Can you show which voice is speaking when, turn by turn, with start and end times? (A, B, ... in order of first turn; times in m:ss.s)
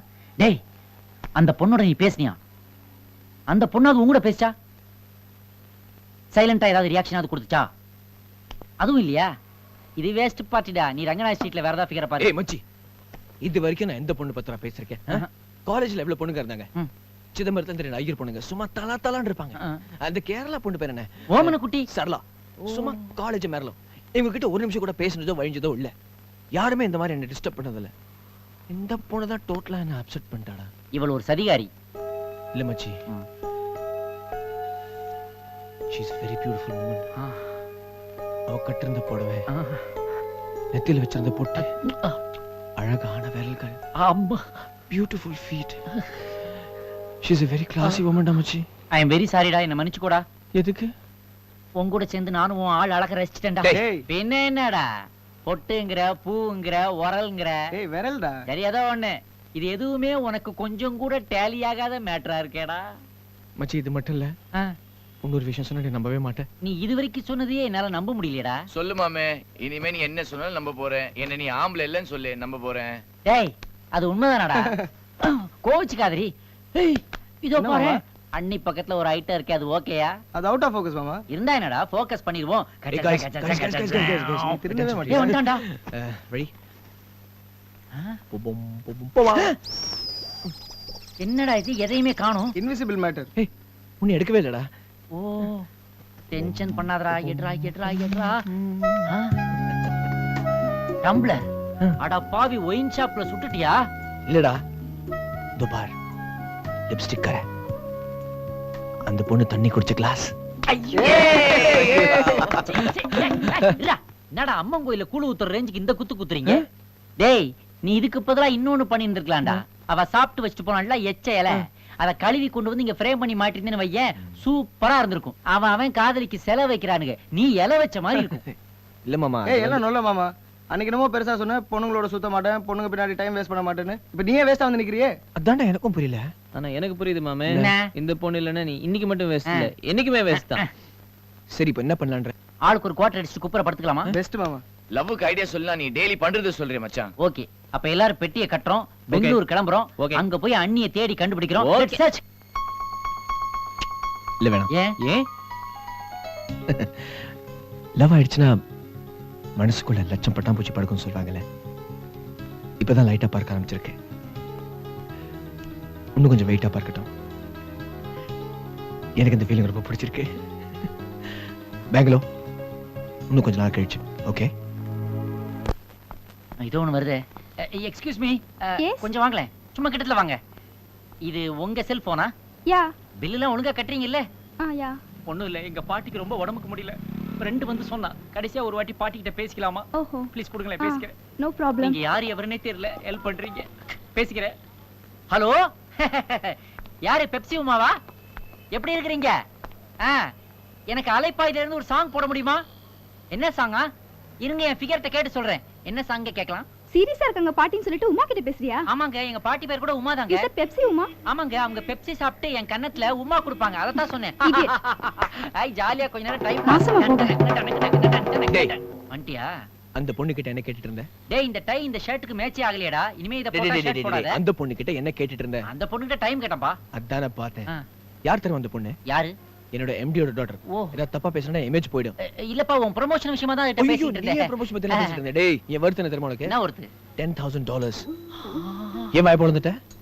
0:01.4-0:02.4 A
0:03.5-0:04.5 A
0:06.3-0:07.7 A
0:08.8-0:09.3 A
0:10.0-0:12.3 A
0:12.2-0:12.6 B
0:13.4-0:16.7 B
0:17.3-0:25.9 B
0:21.3-0:21.9 A
0:22.7-0:23.0 A
0:26.5-0:27.9 B
0:28.7-0:30.7 B
0:30.9-0:31.7 A
0:32.5-0:32.9 B
0:35.9-0:37.1 B
0:37.2-0:37.5 A
0:38.5-0:39.4 B
0:39.5-0:39.8 A
0:40.7-0:41.7 B
0:41.6-0:42.2 A
0:42.8-0:43.8 B
0:44.0-0:44.6 A
0:44.9-0:45.8 B
0:47.2-0:48.6 B
0:48.9-0:50.2 A
0:50.5-0:50.9 B
0:51.8-0:54.9 A
0:53.7-0:54.0 C
0:55.4-0:57.7 A
0:57.7-0:58.4 C
0:58.5-1:02.9 A
1:03.6-1:04.3 B
1:05.2-1:06.4 B
1:06.6-1:08.6 A
1:08.7-1:13.0 D
1:13.2-1:20.1 A
1:17.6-1:17.9 C
1:20.3-1:21.2 C
1:21.3-1:24.4 A
1:22.9-1:26.5 B
1:23.9-1:25.3 C
1:25.1-1:25.6 A
1:27.9-1:28.2 A
1:28.3-1:29.5 B
1:31.2-1:32.5 A
1:32.6-1:33.3 C
1:34.0-1:34.7 B
1:35.1-1:35.7 A
1:36.3-1:38.4 A
1:38.6-1:39.1 B
1:39.1-1:39.3 A
1:41.0-1:41.4 A
1:42.0-1:43.8 A
1:44.3-1:44.6 B
1:45.6-1:45.9 B
1:46.9-1:47.4 B
1:49.1-1:50.3 B
1:50.7-1:56.6 A
1:51.0-1:53.8 B
1:57.2-2:08.4 A
2:08.1-2:08.5 B
2:09.0-2:09.8 B
2:09.4-2:15.1 C
2:15.4-2:16.3 B
2:16.5-2:20.6 E
2:17.6-2:17.9 A
2:20.4-2:20.7 A
2:21.5-2:22.3 B
2:22.6-2:24.1 A
2:24.1-2:24.6 C
2:24.9-2:27.1 D
2:27.2-2:32.2 A
2:29.1-2:29.4 E
2:30.0-2:30.2 E
2:31.6-2:32.0 E
2:34.4-2:34.7 B
2:36.7-2:37.2 B
2:38.0-2:38.5 B
2:39.6-2:41.4 B
2:42.8-2:43.9 B
2:46.2-2:47.1 B
2:49.2-2:50.3 B
2:51.9-2:52.2 B
2:53.3-2:54.5 B
2:56.6-3:00.4 A
2:58.8-2:59.1 F
3:01.2-3:02.3 A
3:02.7-3:02.9 F
3:03.2-3:04.2 A
3:04.6-3:05.0 F
3:05.9-3:06.3 A
3:07.4-3:09.8 A
3:09.9-3:12.0 F
3:10.4-3:10.8 A
3:11.8-3:13.6 A
3:14.2-3:14.4 A
3:15.3-3:18.0 A
3:18.7-3:19.4 A
3:20.0-3:20.3 A
3:20.9-3:22.6 A
3:23.3-3:23.9 A
3:24.4-3:26.6 A
3:26.9-3:28.8 F
3:28.9-3:30.5 A
3:30.3-3:31.1 F
3:31.3-3:39.5 A
3:34.4-3:34.7 F
3:36.7-3:37.3 F
3:40.0-3:41.1 B
3:41.3-3:44.4 A
3:43.5-3:45.6 B
3:45.7-3:46.8 A
3:46.9-3:47.7 B
3:48.2-3:49.0 B
3:49.1-3:49.3 A
3:49.7-3:52.1 B
3:50.7-3:50.9 A
3:52.2-3:55.2 A
3:53.8-3:56.5 B
3:56.4-3:56.9 A
3:57.2-3:58.1 B
3:58.4-3:59.1 A
3:59.1-3:59.8 B